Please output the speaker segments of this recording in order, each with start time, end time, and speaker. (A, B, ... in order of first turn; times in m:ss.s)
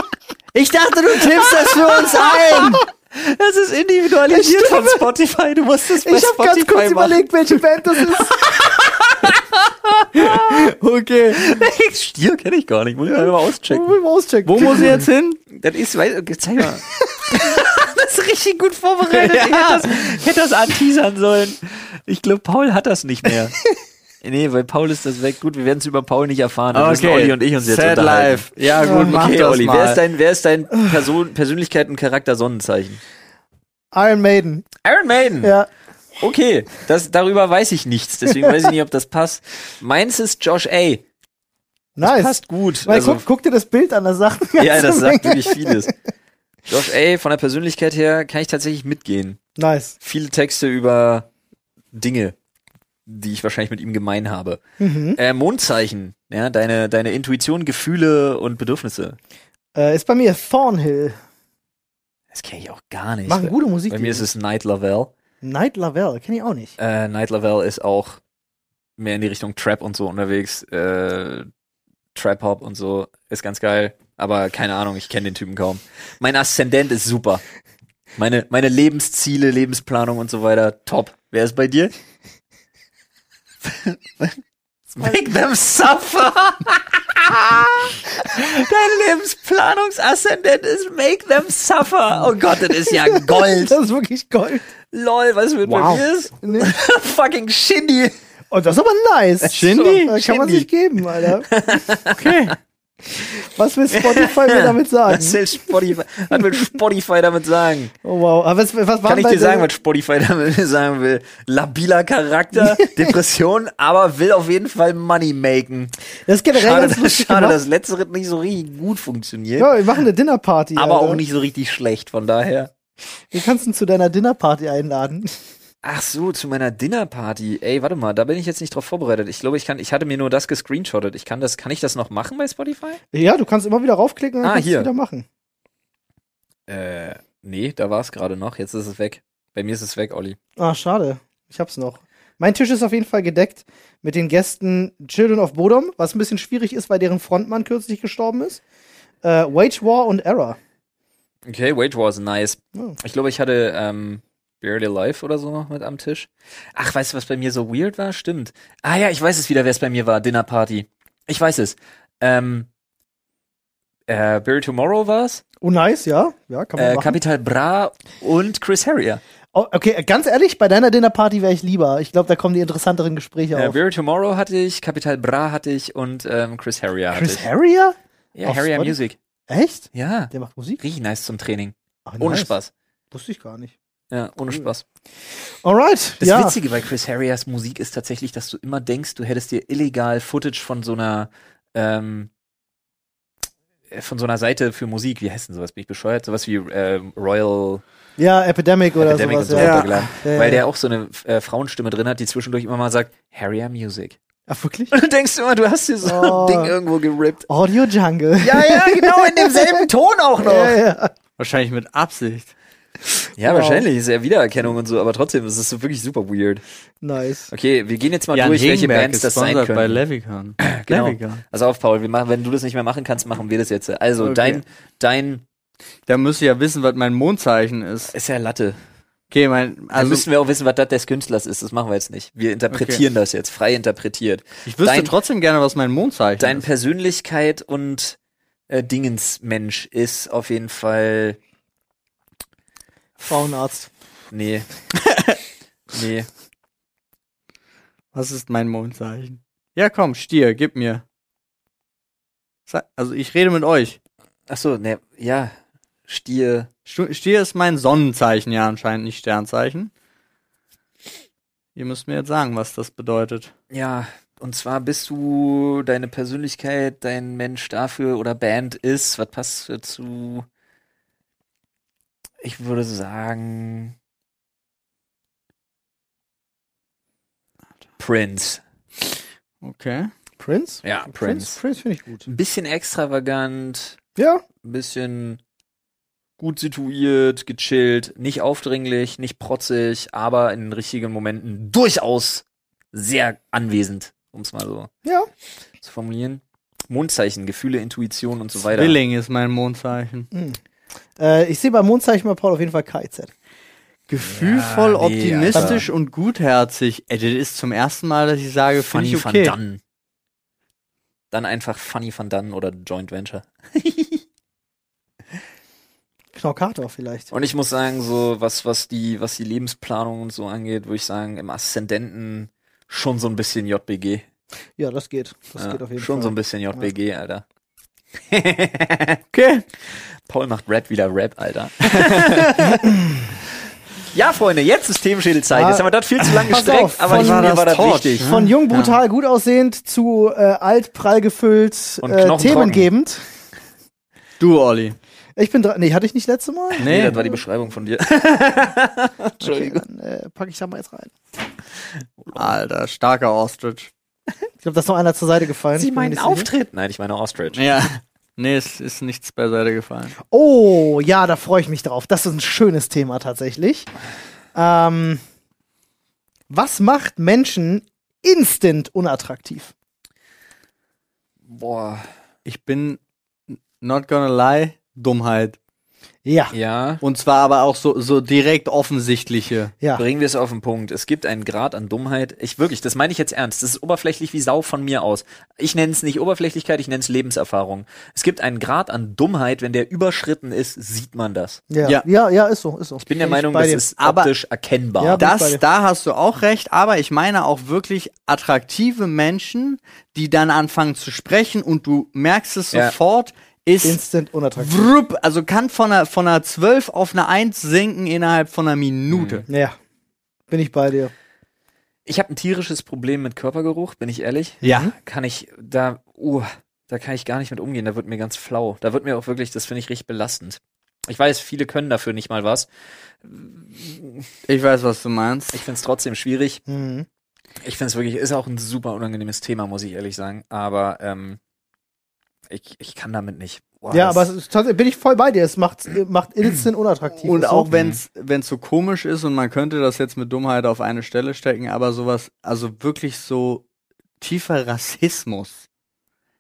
0:00.5-0:02.8 A
0:01.7-0:10.7 B
0:04.3-0:05.0 C
0:06.0-0:08.4 C
0:10.1-0:11.5 A
0:11.3-0:13.9 B
0:13.1-0:15.0 C
0:14.4-0:15.4 A
0:14.6-0:23.6 B
0:19.1-0:19.8 A
0:24.2-0:33.0 B
0:26.7-0:30.0 A
0:28.8-0:29.2 C
0:33.9-0:34.6 C
0:34.8-0:35.5 B
0:35.4-0:35.7 C
0:36.2-0:41.0 B
0:42.0-0:45.9 C
0:42.0-0:43.2 B
0:44.6-0:45.9 B
0:46.7-0:49.4 B
0:49.6-0:50.0 C
0:50.0-0:51.3 B
0:51.9-0:52.4 B
0:53.1-0:54.6 B
0:54.8-0:55.2 C
0:55.2-0:59.2 B
0:59.8-1:01.2 C
1:02.3-1:05.1 B
1:03.3-1:04.3 C
1:05.4-1:06.8 C
1:06.8-1:08.2 B
1:09.0-1:11.5 B
1:12.2-1:17.4 B
1:18.2-1:21.9 B
1:23.6-1:24.4 B
1:24.9-1:33.8 B
1:32.8-1:34.6 C
1:34.9-1:38.2 B
1:35.7-1:36.7 C
1:38.5-1:41.5 C
1:39.4-1:42.4 B
1:39.5-1:40.2 A
1:42.2-1:42.6 A
1:43.2-1:45.4 C
1:43.9-1:47.9 B
1:46.3-1:46.7 C
1:48.0-1:49.7 C
1:49.0-1:55.9 B
1:52.6-1:53.1 C
1:56.3-1:57.6 C
1:56.5-1:59.7 B
1:59.6-2:01.2 C
2:00.8-2:02.7 B
2:03.3-2:05.4 C
2:05.8-2:13.0 B
2:13.1-2:15.3 C
2:14.4-2:14.9 B
2:16.7-2:20.4 B
2:20.6-2:28.6 C
2:29.2-2:30.6 C
2:31.5-2:42.7 B
2:44.1-2:45.4 B
2:45.6-2:47.2 C
2:46.8-2:49.2 B
2:49.5-2:53.8 C
2:53.5-2:57.5 B
2:57.1-2:59.0 C
2:58.4-2:59.2 B
2:59.5-3:00.8 C
2:59.9-3:02.7 B
3:02.1-3:02.5 C
3:03.1-3:03.7 C
3:04.1-3:04.8 B
3:05.6-3:06.6 C
3:06.2-3:12.3 B
3:13.9-3:17.8 B
3:18.2-3:20.6 C
3:19.0-3:24.2 B
3:19.6-3:19.9 A
3:24.5-3:24.9 C
3:24.9-3:27.5 B
3:26.0-3:26.8 C
3:27.5-3:29.9 C
3:28.4-3:30.8 B
3:30.4-3:31.1 C
3:31.4-3:32.5 A
3:33.4-3:36.6 B
3:33.4-3:33.8 C
3:37.0-3:37.5 C
3:37.5-3:40.0 B
3:38.3-3:41.4 A
3:40.6-3:45.4 B
3:44.2-3:44.6 A
3:46.1-3:48.1 A
3:48.1-3:48.8 B
3:49.3-3:50.2 A
3:50.0-3:55.1 B
3:52.7-3:53.0 A
3:54.7-3:56.6 A
3:56.4-3:58.2 B
3:58.7-4:01.4 B
4:03.2-4:03.9 C
4:04.3-4:04.7 B
4:05.1-4:05.4 A
4:05.9-4:06.3 B
4:08.2-4:11.0 A
4:12.7-4:14.0 A
4:14.5-4:15.6 B
4:16.1-4:16.7 B
4:16.9-4:19.9 A
4:21.8-4:23.5 A
4:23.7-4:30.5 B
4:32.4-4:34.0 B
4:38.0-4:38.6 B
4:39.6-4:40.1 A
4:40.4-4:42.3 C
4:40.8-4:41.6 B
4:42.2-4:44.0 B
4:44.2-4:44.4 C
4:44.6-4:45.4 B
4:46.4-4:54.9 B
4:55.8-4:59.0 B
4:58.7-5:00.3 A
5:00.3-5:00.6 C
5:01.2-5:03.3 C
5:04.1-5:09.5 A
5:04.3-5:05.9 B
5:05.5-5:05.9 C
5:08.8-5:09.8 B
5:11.3-5:14.2 B
5:16.3-5:17.3 C
5:17.3-5:24.2 B
5:24.8-5:26.9 C
5:25.6-5:27.4 B
5:28.3-5:29.2 B
5:29.3-5:29.6 A
5:29.9-5:32.9 B
5:31.9-5:32.2 A
5:32.7-5:33.1 C
5:33.5-5:38.3 B
5:35.5-5:37.6 C
5:36.4-5:39.0 A
5:38.2-5:43.3 C
5:42.0-5:42.9 B
5:44.4-5:45.0 A
5:45.4-5:47.4 C
5:46.8-5:49.8 B
5:46.8-5:47.2 A
5:49.4-5:51.2 C
5:52.3-5:53.9 A
5:54.6-5:56.5 C
5:55.8-5:57.6 B
5:57.6-6:00.2 A
6:00.3-6:03.9 C
6:04.6-6:05.2 C
6:06.5-6:09.7 C
6:11.5-6:12.1 B
6:12.5-6:15.6 A
6:16.2-6:16.5 C
6:16.5-6:17.0 B
6:17.0-6:19.7 A
6:20.0-6:31.6 B
6:31.7-6:33.8 C
6:33.0-6:35.2 B
6:34.0-6:34.3 A
6:35.0-6:35.6 C
6:35.2-6:44.0 A
6:43.8-6:44.9 C
6:44.6-6:49.4 A
6:49.1-6:49.5 B
6:49.5-6:49.8 C
6:50.5-6:51.1 C
6:52.1-7:02.7 B
6:54.6-6:54.9 A
6:54.6-6:54.9 C
7:03.2-7:04.3 B
7:04.5-7:05.6 A
7:05.5-7:06.6 B
7:06.7-7:07.1 C
7:07.6-7:11.4 B
7:12.5-7:14.3 B
7:13.9-7:17.7 C
7:17.2-7:23.6 A
7:17.7-7:18.0 B
7:24.2-7:25.6 A